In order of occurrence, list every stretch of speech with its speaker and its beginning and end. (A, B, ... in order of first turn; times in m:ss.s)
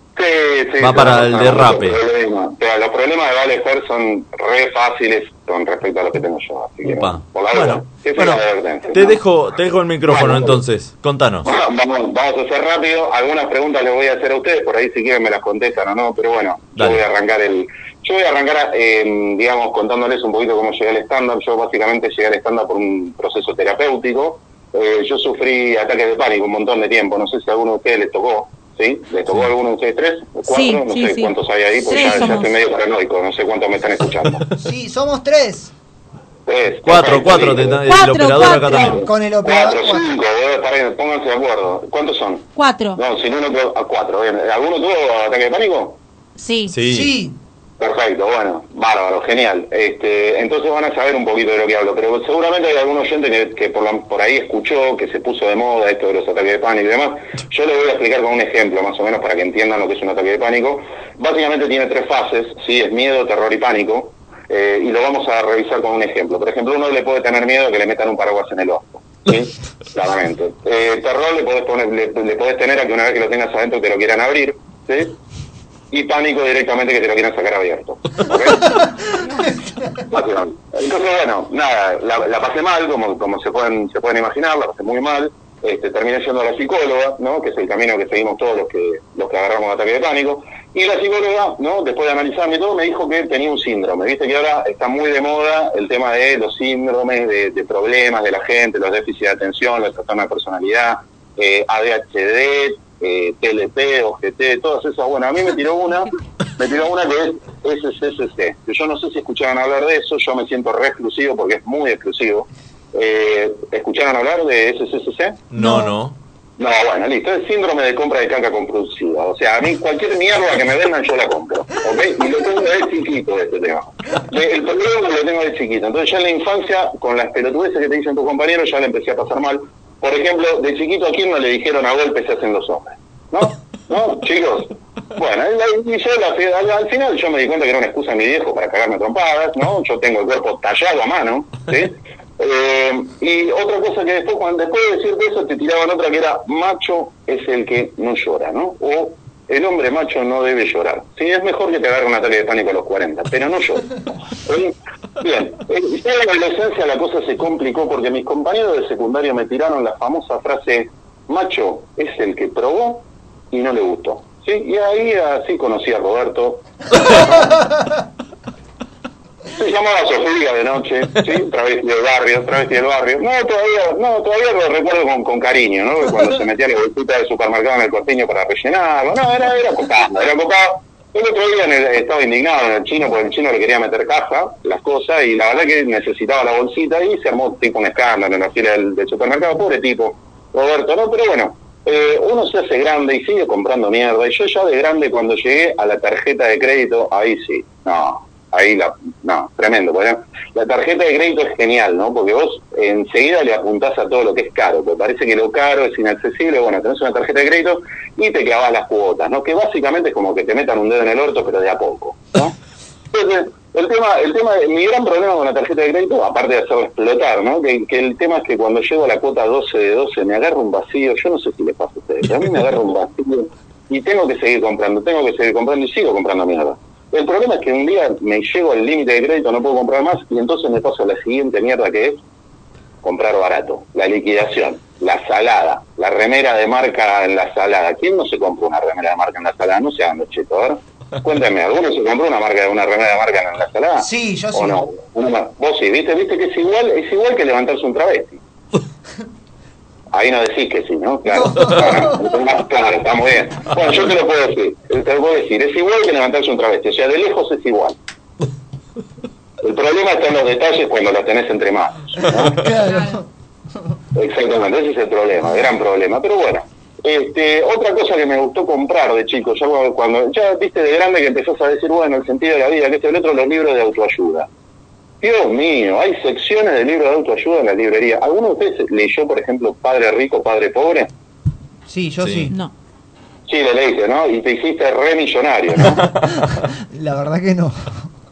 0:00.2-0:09.2 A
0:00.8-0:02.0 B
0:06.8-0:11.5 B
0:10.1-0:10.6 A
0:11.4-0:34.4 A
0:16.8-0:17.0 B
0:30.5-0:32.5 C
0:34.6-0:35.7 D
0:36.5-0:37.8 A
0:36.8-0:39.1 B
0:37.9-0:39.0 C
0:38.8-0:46.0 A
0:38.8-0:40.1 D
0:42.6-0:43.0 C
0:46.4-0:46.8 C
0:46.7-0:47.2 B
0:46.8-0:47.4 D
0:47.8-1:15.1 A
1:15.9-1:18.8 A
1:20.1-1:55.4 A
1:55.5-1:56.2 B
1:56.6-2:33.9 A
2:34.4-2:46.6 A
2:49.6-3:32.5 A
3:33.1-3:52.2 A
3:53.0-4:08.4 A
4:04.0-4:04.8 D
4:10.1-4:18.0 A
4:11.3-4:12.0 D
4:19.6-4:22.6 A
4:22.4-4:23.2 D
4:22.8-4:23.2 C
4:24.2-4:34.5 A
4:35.2-4:41.1 A
4:41.9-4:42.5 D
4:42.2-4:42.5 B
4:43.5-4:46.0 A
4:46.9-4:48.0 D